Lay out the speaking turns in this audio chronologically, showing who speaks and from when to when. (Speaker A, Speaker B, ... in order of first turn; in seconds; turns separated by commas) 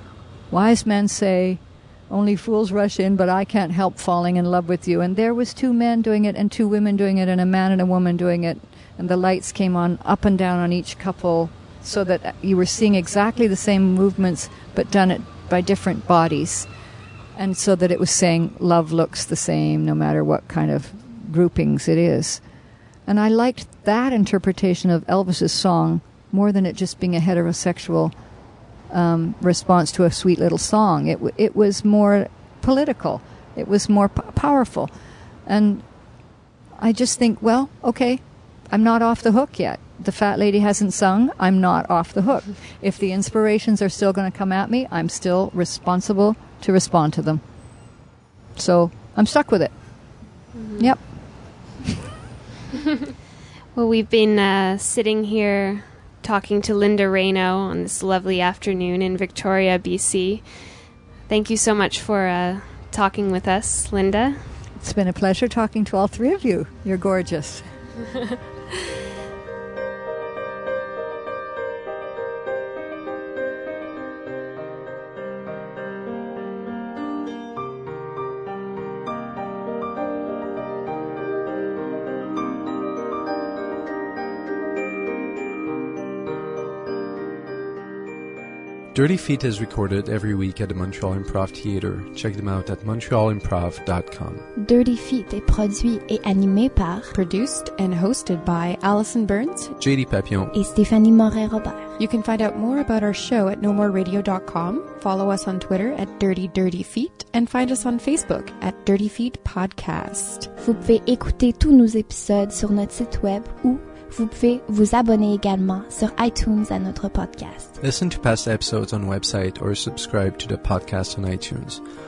Speaker A: 0.5-16.7, Speaker A: 17.4-22.4, Speaker A: 23.1-28.1, Speaker A: 28.9-34.9, Speaker A: 35.5-35.8, Speaker A: 36.8-47.4, Speaker A: 48.6-49.7, Speaker B: 50.5-50.9, Speaker A: 50.8-51.0, Speaker B: 53.7-60.5, Speaker B: 61.3-64.4, Speaker A: 64.8-67.7, Speaker C: 88.9-94.4, Speaker D: 94.5-97.1, Speaker E: 97.1-99.7, Speaker C: 99.8-100.5, Speaker D: 100.5-101.9, Speaker E: 102.0-110.5, Speaker D: 110.6-117.8, Speaker C: 117.8-121.8